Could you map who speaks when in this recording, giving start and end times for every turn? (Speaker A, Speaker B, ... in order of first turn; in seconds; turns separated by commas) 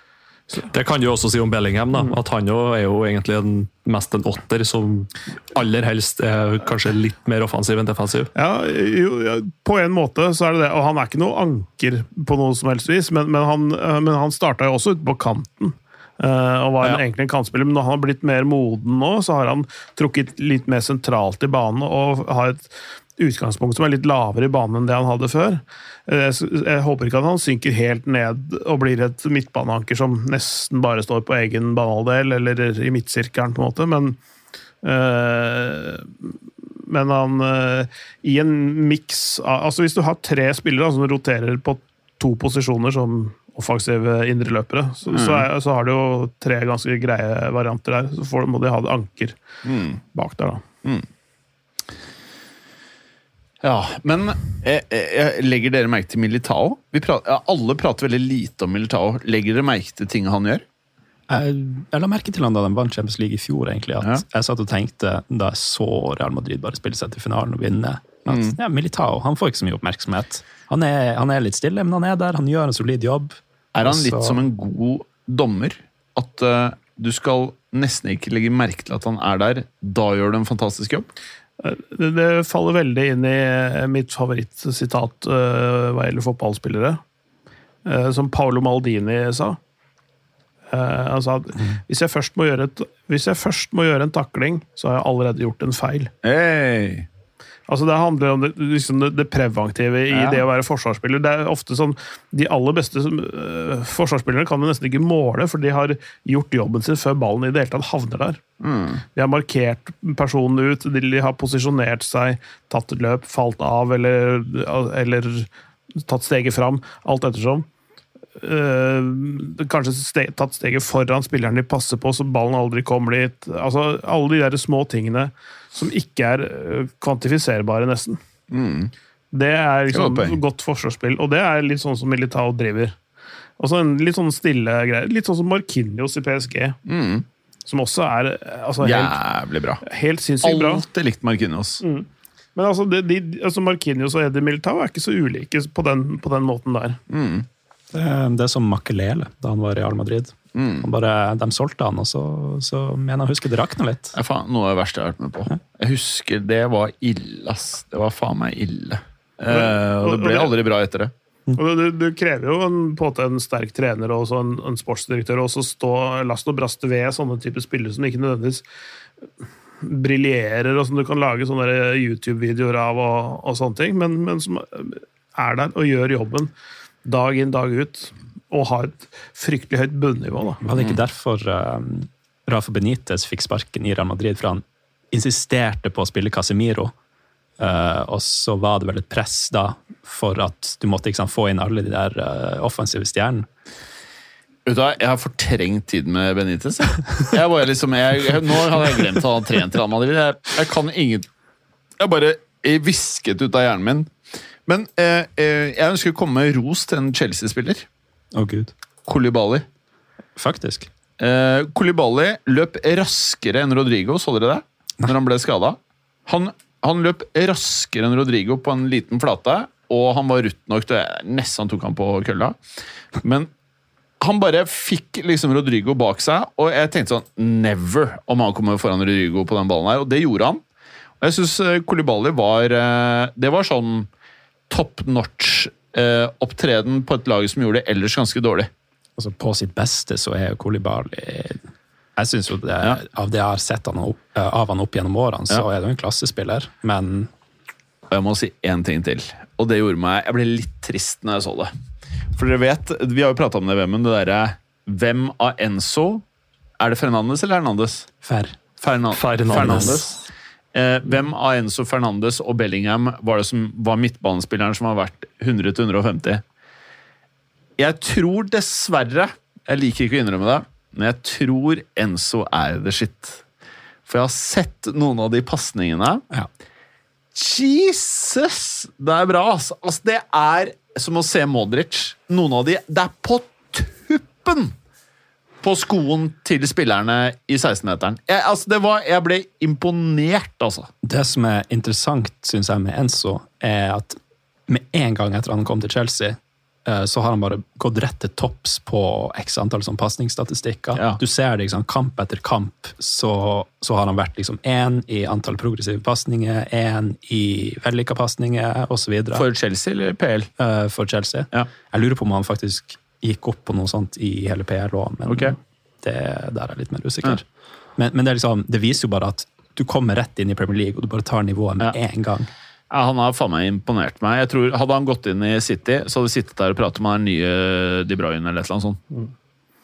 Speaker A: 0.7-8.3, Speaker B: 8.3-34.2, Speaker B: 34.8-36.3, Speaker B: 36.9-49.4, Speaker C: 45.1-45.5, Speaker C: 49.6-50.0, Speaker B: 50.1-50.6, Speaker C: 53.6-60.6, Speaker D: 61.3-74.4, Speaker C: 68.3-68.6, Speaker C: 73.7-81.1, Speaker B: 81.6-87.0, Speaker B: 87.8-89.6, Speaker B: 90.7-96.1, Speaker C: 96.2-97.1, Speaker B: 97.7-108.4, Speaker C: 100.1-100.4, Speaker C: 108.6-109.0, Speaker B: 109.2-115.5, Speaker B: 116.0-117.7, Speaker B: 118.4-128.2, Speaker C: 128.5-128.9, Speaker B: 129.3-133.0, Speaker C: 129.9-130.4, Speaker B: 133.6-136.8, Speaker C: 136.9-137.2, Speaker B: 137.7-139.2, Speaker C: 138.8-139.8, Speaker B: 139.8-140.8, Speaker C: 140.4-141.8, Speaker B: 141.8-147.0, Speaker C: 147.1-147.5, Speaker D: 147.9-154.2, Speaker C: 150.6-150.9, Speaker C: 154.2-161.1, Speaker B: 159.5-160.5, Speaker B: 161.5-168.6, Speaker B: 169.8-176.5, Speaker B: 177.1-180.6, Speaker D: 180.7-186.9, Speaker D: 187.6-193.5, Speaker C: 194.7-201.3, Speaker C: 202.0-204.1, Speaker C: 204.7-207.9, Speaker D: 208.3-208.7, Speaker C: 209.1-209.7, Speaker D: 210.4-210.9, Speaker C: 211.2-222.6, Speaker C: 223.2-223.5, Speaker C: 224.2-230.6, Speaker C: 231.2-234.1, Speaker C: 234.7-238.7, Speaker D: 239.2-241.6, Speaker D: 242.2-247.3, Speaker C: 248.1-251.7, Speaker C: 252.3-256.2, Speaker C: 256.8-258.1, Speaker D: 258.2-258.6, Speaker C: 258.8-260.2, Speaker A: 259.1-260.0, Speaker D: 259.5-260.2, Speaker C: 260.7-266.4, Speaker C: 267.8-273.4, Speaker C: 274.1-276.3, Speaker C: 277.4-284.7, Speaker C: 285.6-290.9, Speaker D: 291.0-309.4, Speaker C: 309.4-310.5, Speaker D: 310.6-317.4, Speaker C: 315.3-315.6, Speaker D: 318.0-322.5, Speaker C: 322.9-329.0